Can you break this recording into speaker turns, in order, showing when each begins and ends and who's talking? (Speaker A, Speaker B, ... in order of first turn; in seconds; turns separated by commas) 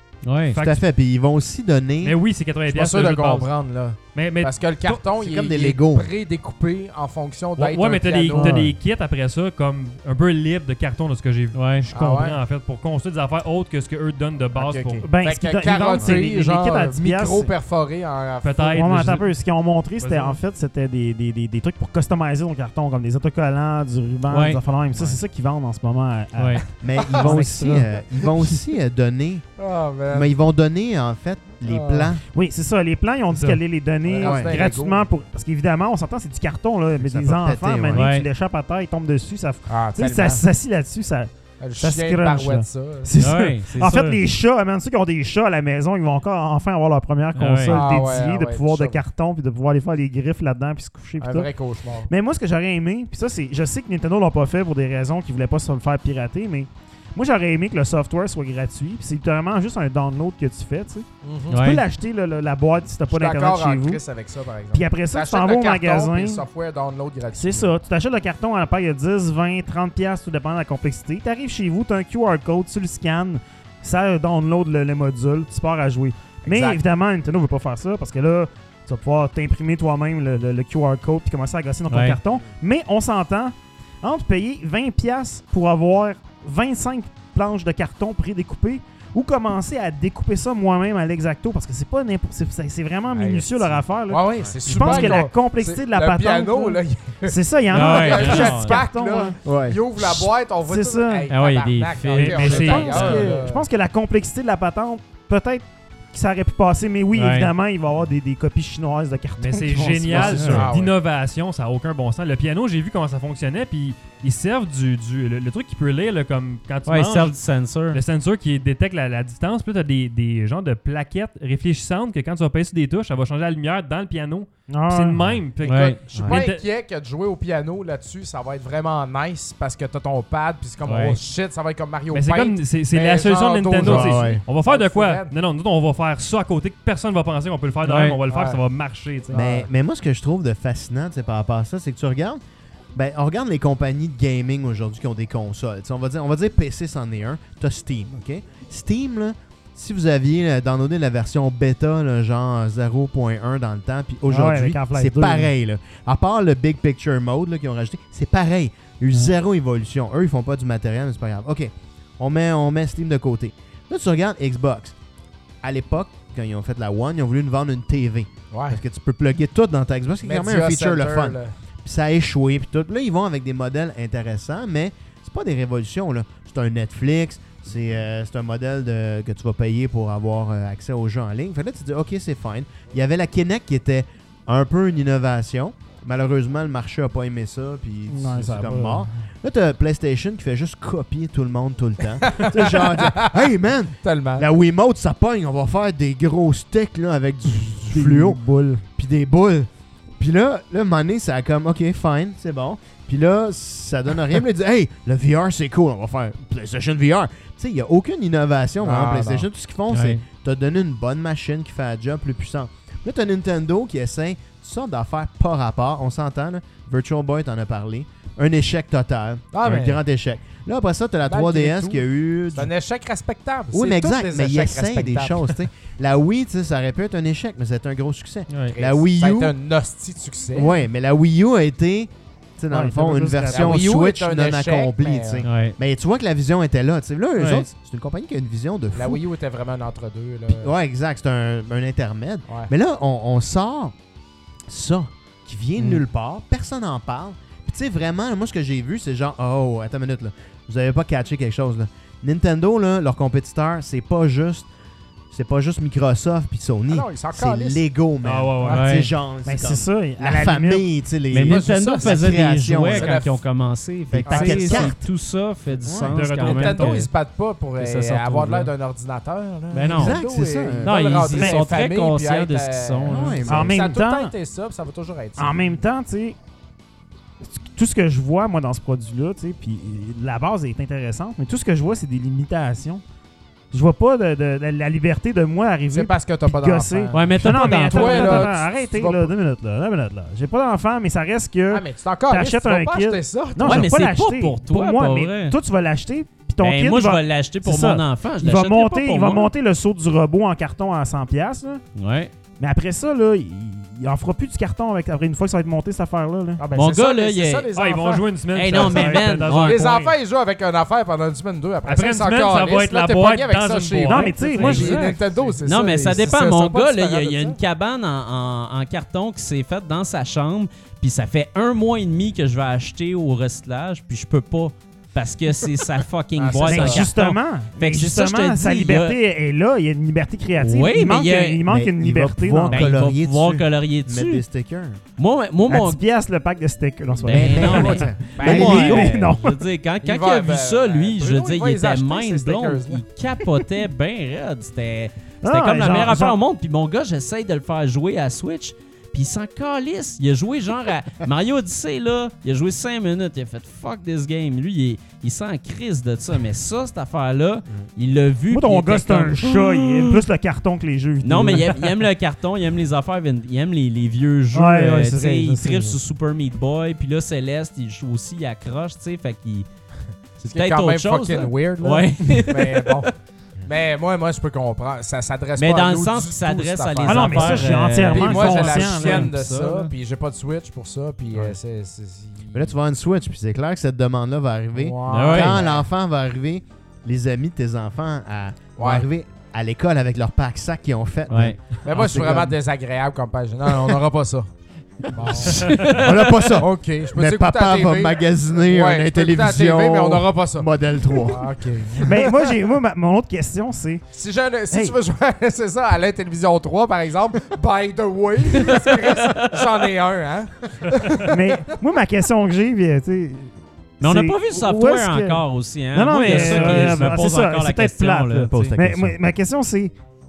Speaker A: 0.2-0.6, Speaker B: 0.5-0.8, Speaker C: 0.6-2.2, Speaker B: 2.0-3.5, Speaker D: 2.7-8.6, Speaker B: 4.1-4.9, Speaker C: 5.1-6.1, Speaker B: 7.6-15.1, Speaker E: 8.3-8.7, Speaker A: 11.5-11.9, Speaker D: 11.9-12.4, Speaker D: 14.6-18.9, Speaker E: 15.1-17.5, Speaker B: 18.4-19.3, Speaker E: 18.7-28.6, Speaker B: 20.0-20.4, Speaker A: 24.3-24.6, Speaker C: 24.9-25.2, Speaker A: 26.4-26.6, Speaker C: 26.8-29.4, Speaker D: 27.0-27.4, Speaker D: 29.6-30.3, Speaker C: 30.1-32.2, Speaker D: 31.6-32.1, Speaker E: 32.3-51.5, Speaker B: 33.3-33.6, Speaker D: 34.0-35.1, Speaker C: 34.2-34.6, Speaker C: 37.0-38.1, Speaker A: 37.9-38.3, Speaker D: 39.7-40.4, Speaker D: 41.6-43.1, Speaker A: 43.2-44.2, Speaker A: 47.4-47.8, Speaker D: 47.7-49.0, Speaker D: 51.2-52.1, Speaker E: 52.1-64.0, Speaker D: 61.2-61.7, Speaker A: 61.5-61.8, Speaker D: 63.1-67.7, Speaker E: 64.7-66.4, Speaker E: 67.3-99.3, Speaker D: 76.5-76.8, Speaker A: 81.9-82.2, Speaker D: 93.1-103.7, Speaker A: 97.7-98.8, Speaker C: 99.4-100.1, Speaker E: 100.7-101.3, Speaker A: 101.3-103.1, Speaker B: 102.2-103.3, Speaker E: 102.5-110.7, Speaker A: 107.1-107.5, Speaker B: 109.4-117.4, Speaker C: 110.1-110.8, Speaker D: 110.1-110.9, Speaker A: 116.8-118.0, Speaker B: 117.9-126.6, Speaker E: 124.7-125.2, Speaker A: 125.6-126.0, Speaker D: 125.6-135.3, Speaker A: 130.8-131.2, Speaker B: 132.1-139.4, Speaker C: 133.8-134.4, Speaker A: 137.8-138.2, Speaker D: 138.3-138.6, Speaker D: 139.3-139.7, Speaker C: 139.3-142.4, Speaker C: 142.9-164.9, Speaker E: 154.3-155.5, Speaker C: 165.6-198.4, Speaker D: 168.5-168.8, Speaker D: 170.2-171.5, Speaker E: 188.1-189.1, Speaker D: 192.2-193.5, Speaker D: 194.0-194.5, Speaker E: 197.9-198.8, Speaker C: 198.9-222.7, Speaker D: 208.8-209.5, Speaker A: 209.9-210.2, Speaker D: 219.5-220.0, Speaker D: 221.3-225.6, Speaker C: 223.7-229.5, Speaker D: 228.7-230.7, Speaker C: 230.5-239.2, Speaker E: 232.7-233.8, Speaker D: 233.5-235.4, Speaker A: 235.4-235.7, Speaker B: 237.4-237.7, Speaker D: 238.9-240.7, Speaker C: 240.6-243.9, Speaker C: 244.7-254.7, Speaker A: 245.8-246.0, Speaker C: 255.3-263.2, Speaker D: 256.9-257.8, Speaker B: 258.2-258.9, Speaker A: 258.7-259.1, Speaker E: 259.4-260.9, Speaker A: 261.3-267.1, Speaker D: 261.5-263.4, Speaker C: 264.1-265.1, Speaker D: 264.3-264.9, Speaker C: 265.8-266.1, Speaker B: 266.1-267.0, Speaker D: 266.4-275.8, Speaker A: 267.8-268.7, Speaker A: 269.7-270.2, Speaker C: 270.0-270.9, Speaker A: 270.8-273.5, Speaker E: 271.4-271.6, Speaker C: 273.1-273.8, Speaker E: 273.5-274.3, Speaker E: 275.4-276.4, Speaker E: 277.4-283.0, Speaker E: 283.7-301.8, Speaker D: 285.9-289.3, Speaker A: 287.1-288.5, Speaker D: 291.7-293.9, Speaker A: 293.6-295.6, Speaker A: 296.6-299.5, Speaker A: 301.9-302.3, Speaker E: 302.6-306.9, Speaker D: 306.6-317.6, Speaker A: 306.7-307.7, Speaker B: 307.7-310.1, Speaker A: 308.5-309.9, Speaker B: 311.9-315.2, Speaker E: 314.0-315.1, Speaker A: 314.6-329.2, Speaker D: 326.4-327.1, Speaker E: 326.7-332.8, Speaker A: 330.6-331.6, Speaker C: 331.6-335.0, Speaker A: 332.7-334.4, Speaker A: 335.2-336.0, Speaker E: 335.7-339.6, Speaker A: 337.2-360.2, Speaker C: 337.3-339.3, Speaker D: 338.4-339.1, Speaker D: 340.0-343.0, Speaker E: 345.4-346.4, Speaker E: 358.5-361.9, Speaker A: 361.2-369.7, Speaker E: 364.5-366.0, Speaker A: 370.4-373.1, Speaker D: 370.4-373.1, Speaker D: 373.6-382.7, Speaker A: 375.6-379.9, Speaker E: 377.1-379.3, Speaker C: 382.5-392.6, Speaker D: 384.8-385.9, Speaker A: 385.1-385.6, Speaker D: 388.8-389.1, Speaker A: 391.3-391.6, Speaker D: 391.9-394.5, Speaker D: 395.0-395.6, Speaker A: 395.2-396.6, Speaker C: 395.2-402.0, Speaker B: 395.6-395.9, Speaker D: 396.4-402.4, Speaker E: 402.0-404.0, Speaker D: 404.1-411.6, Speaker A: 408.5-409.9, Speaker B: 410.9-411.3, Speaker E: 411.3-415.4, Speaker A: 414.0-418.7, Speaker E: 415.9-419.9, Speaker C: 416.3-416.7, Speaker B: 416.4-416.9, Speaker C: 418.3-419.2